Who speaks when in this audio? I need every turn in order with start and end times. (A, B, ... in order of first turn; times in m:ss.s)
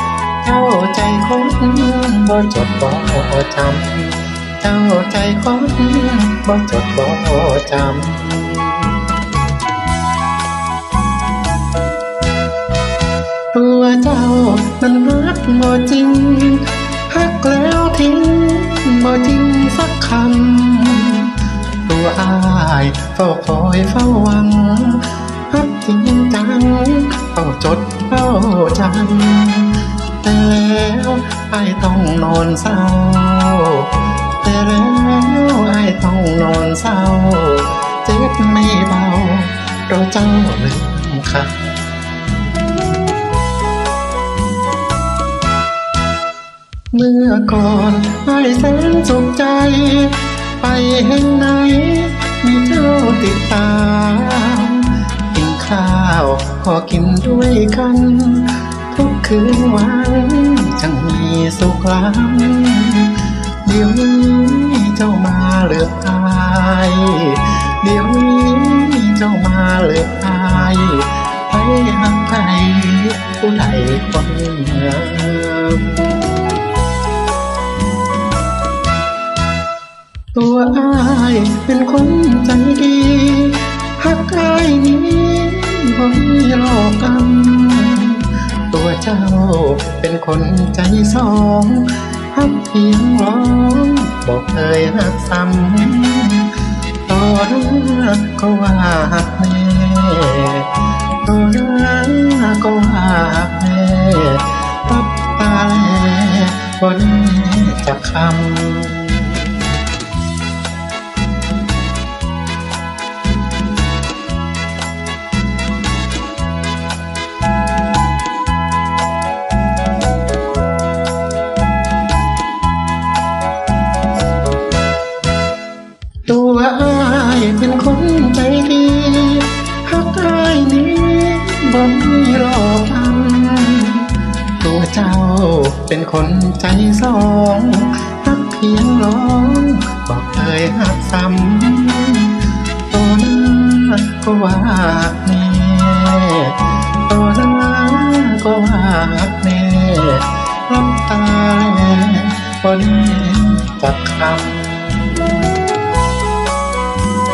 0:00.4-0:09.0 A
0:13.5-0:41.6 A
0:46.9-1:16.2 A
1:20.3-1:49.5 A
2:06.3-2:34.8 A